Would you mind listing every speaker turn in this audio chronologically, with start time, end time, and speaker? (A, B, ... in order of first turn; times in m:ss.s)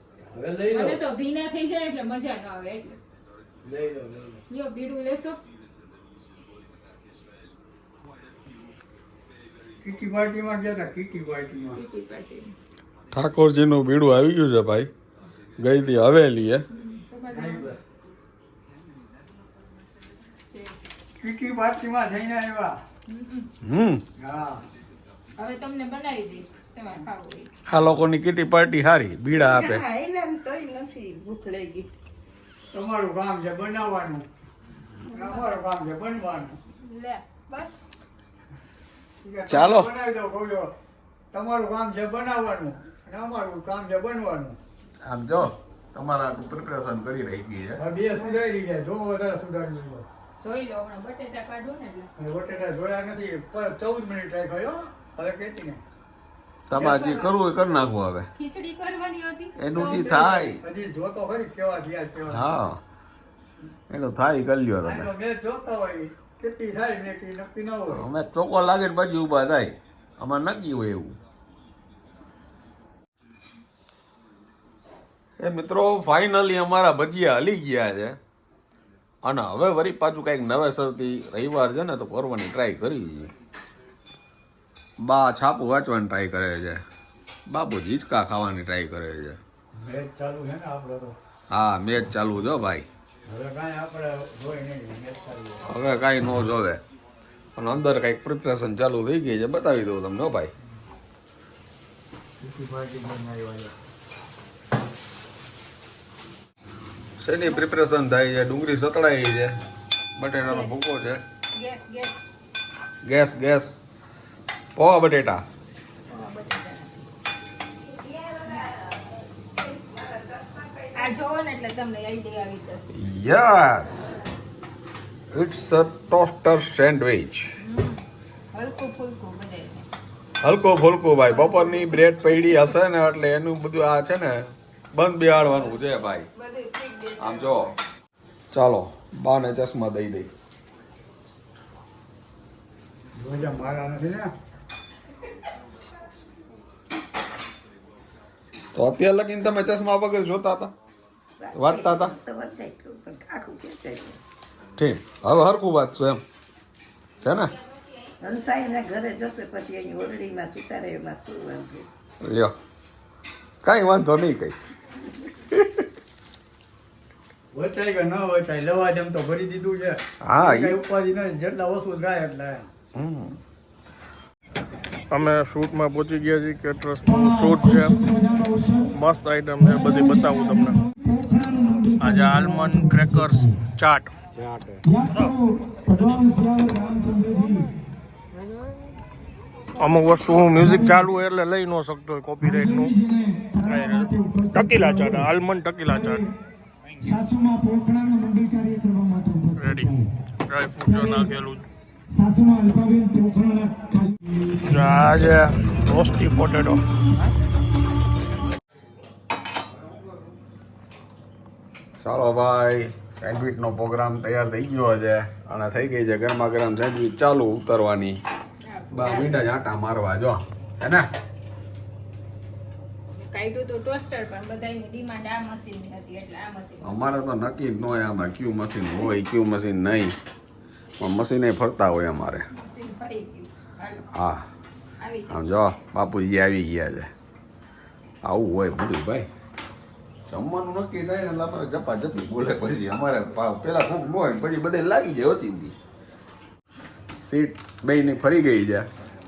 0:00.2-0:01.0 A
0:00.7-0:03.0 B
0:03.6-0:04.4 A
0:04.5-0:05.4 B
0:09.8-0:11.8 A
0:11.7-0:12.5 B
0:13.1-0:14.9 C
0:15.6-0:16.6 C
0:16.7-0:17.7 B
0:17.3-0:17.8 A
0:20.5-0:20.9 B
0:21.2-0:22.8 A
0:23.1-0:23.5 B
0:23.6-0:24.0 C
0:24.2-0:24.6 A
0:25.4-0:27.5 B
0:27.7-0:29.8 C
0:29.3-0:31.9 D
0:32.7-0:34.2 A
0:35.1-0:35.5 B
0:35.1-0:36.6 A
0:36.8-0:37.8 B
0:39.2-0:40.7 A
0:39.5-0:39.9 C
0:41.3-0:44.6 A
0:45.0-0:47.8 C
0:47.8-0:50.0 A
0:50.4-0:52.1 B
0:52.2-0:55.8 A
0:56.7-0:58.3 C
0:56.8-0:57.4 B
0:58.4-1:00.5 B
0:59.6-1:00.6 C
1:00.6-1:02.5 A
1:02.2-1:02.8 C
1:03.9-1:05.1 C
1:04.8-1:08.0 A
1:07.9-1:11.2 C
1:15.4-1:18.2 C
1:19.2-1:23.3 C
1:25.0-1:26.8 C
1:27.5-1:29.4 C
1:29.7-1:31.1 A
1:31.5-1:32.8 C
1:33.2-1:35.7 A
1:35.7-1:36.8 C
1:37.6-1:40.5 C
1:42.4-1:43.7 A
1:47.2-1:49.5 C
1:50.2-1:51.2 C
1:50.4-1:50.8 B
1:51.5-1:52.3 B
1:53.0-1:53.8 C
1:54.8-1:55.4 C
1:56.1-1:56.9 B
1:57.9-2:00.9 D
2:00.9-2:02.9 B
2:02.9-2:04.2 C
2:05.3-2:07.4 C
2:07.6-2:09.9 B
2:10.4-2:16.3 C
2:11.2-2:12.7 B
2:15.5-2:15.8 B
2:16.3-2:17.7 B
2:17.2-2:17.7 C
2:18.5-2:20.3 C
2:23.1-2:24.3 A
2:28.7-2:30.7 C
2:31.4-2:34.2 D
2:31.5-2:32.1 C
2:34.8-2:36.2 C
2:37.2-2:39.0 B
2:37.2-2:37.5 C
2:38.2-2:41.9 D
2:42.2-2:42.5 C
2:43.6-2:44.5 C
2:45.5-2:45.8 C
2:47.5-2:52.7 A
2:50.2-2:50.8 C
2:52.9-2:53.4 C
2:55.1-2:58.1 E
2:58.1-2:58.7 F
2:58.8-3:00.8 E
3:01.3-3:01.9 F
3:02.0-3:04.1 E
3:05.0-3:05.3 F
3:05.1-3:06.4 E
3:06.3-3:07.6 F
3:09.8-3:13.0 E
3:12.8-3:15.0 F
3:13.6-3:16.3 E
3:17.3-3:19.7 F
3:19.6-3:21.7 E
3:22.2-3:24.0 F
3:24.6-3:26.8 E
3:32.0-3:38.2 C
3:38.6-3:39.4 B
3:38.9-3:41.0 C
3:43.2-3:47.1 B
3:46.8-3:50.2 C
3:51.0-3:52.4 C
3:52.5-3:54.1 B
3:54.1-3:54.4 C
3:55.0-3:55.6 B
3:55.3-3:57.1 C
3:58.2-3:59.3 C
4:00.3-4:05.7 C
4:07.2-4:08.9 C